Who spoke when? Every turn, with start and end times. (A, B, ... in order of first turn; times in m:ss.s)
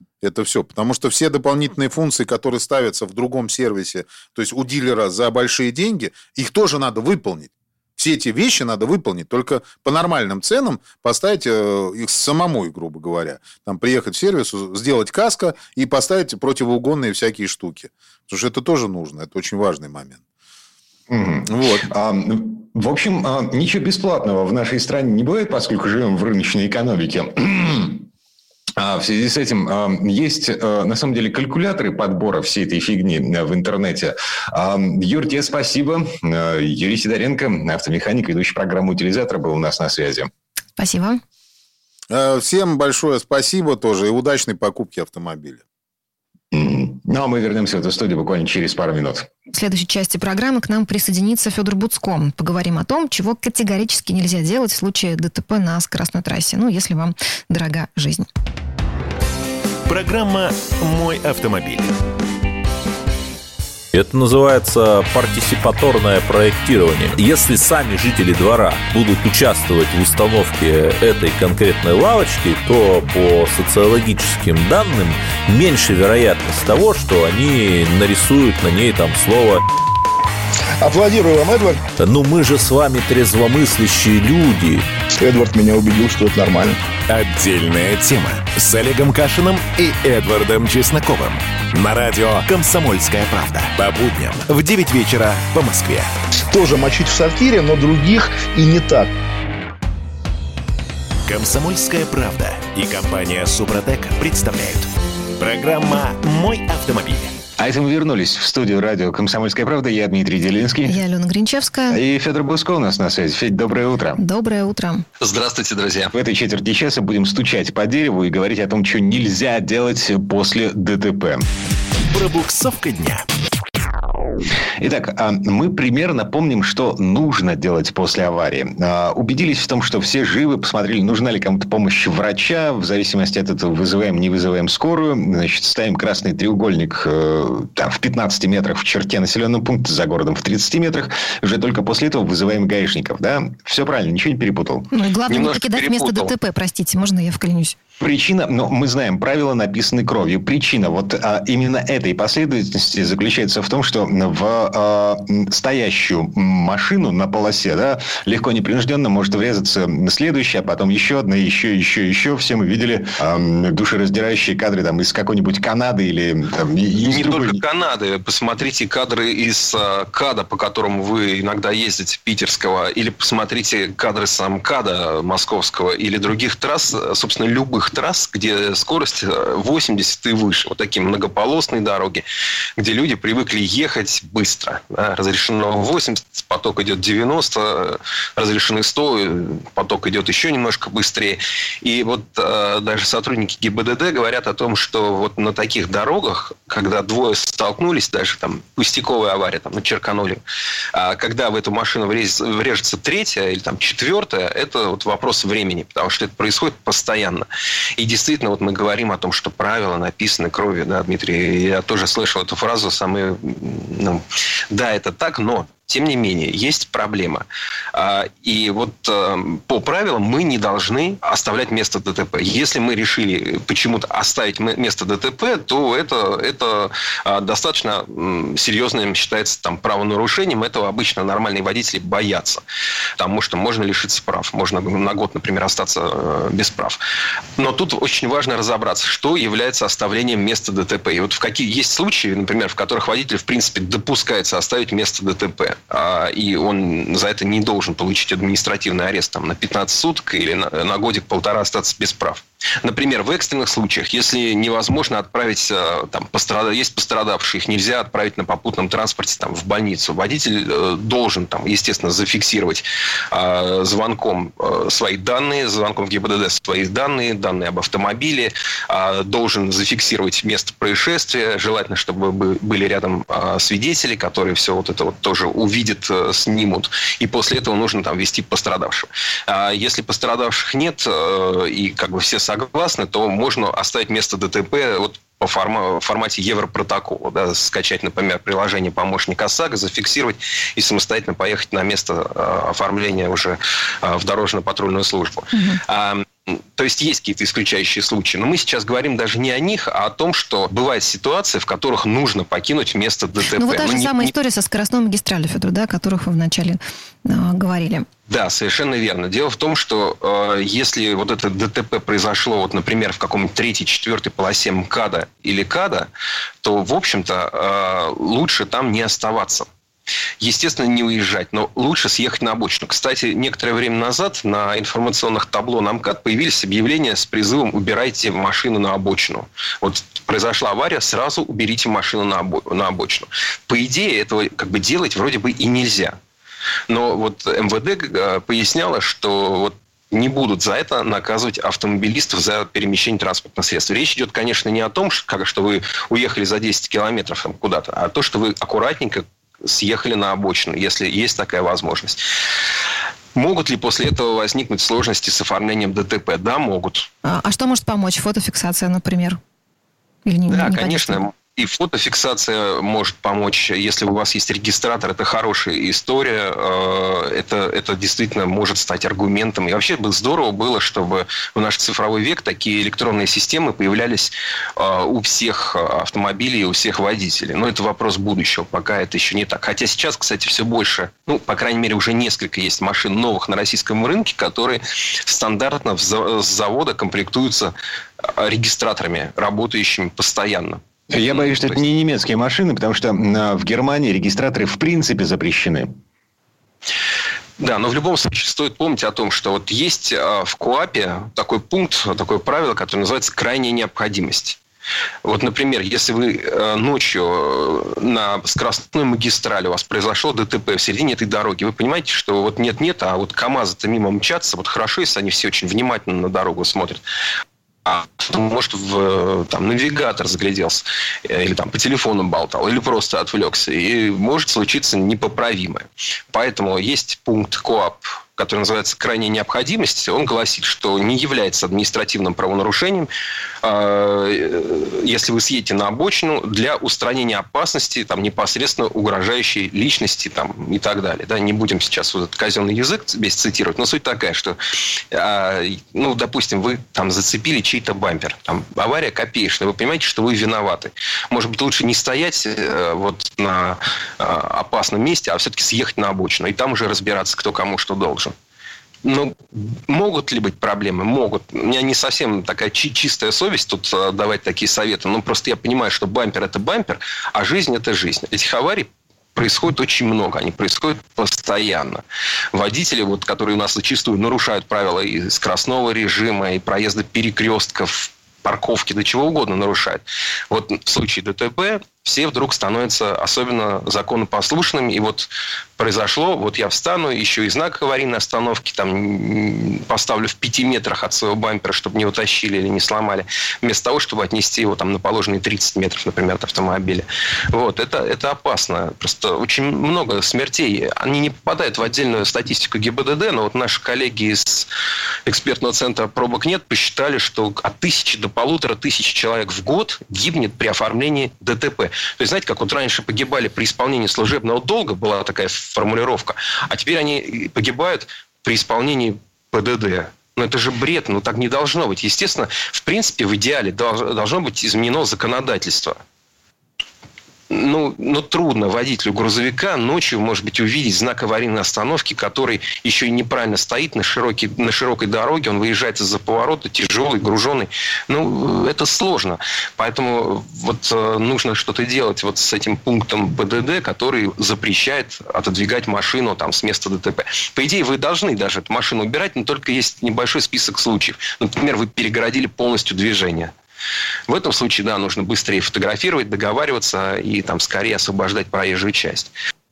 0:00.2-0:20.2 A
0:21.1-0:28.1 B
0:21.5-0:21.8 A
0:28.8-0:40.3 B
0:40.8-0:41.2 C
0:42.1-0:45.6 A
0:46.5-0:49.3 B
0:49.5-0:58.3 C
0:59.9-1:01.9 D
1:03.9-1:19.6 E
1:20.8-1:21.8 F
1:22.0-1:24.8 E
1:25.2-1:26.8 F
1:27.1-1:36.1 D
1:36.5-1:39.1 F
1:41.3-1:47.4 D
1:47.6-1:51.0 B
1:50.9-1:52.0 C
1:51.9-1:54.2 B
1:54.2-1:55.0 C
1:55.2-1:56.1 G
1:56.1-2:01.5 B
2:02.1-2:03.3 D
2:04.8-2:24.9 B
2:24.9-2:27.8 C
2:25.3-2:26.3 G
2:28.0-2:47.6 B
2:47.0-3:02.2 G
3:02.8-3:20.4 G
3:20.9-3:52.6 G
3:53.2-3:57.0 G
3:57.6-5:04.3 G
4:55.5-4:55.8 C
5:03.6-5:08.1 C
5:08.3-5:16.1 G
5:16.6-5:19.7 G
5:20.4-5:36.2 G
5:36.9-5:52.2 G
5:53.4-5:57.1 G
5:57.2-5:59.4 C
6:00.2-6:01.2 C
6:00.5-6:31.8 G
6:31.1-6:35.9 B
6:37.6-6:44.6 G
6:45.2-6:57.0 G
6:57.9-7:13.1 G
7:13.6-7:24.6 G
7:25.1-7:38.3 G
7:39.0-8:24.7 G
8:25.3-8:46.0 G
8:47.5-9:13.5 G
9:14.3-9:19.3 G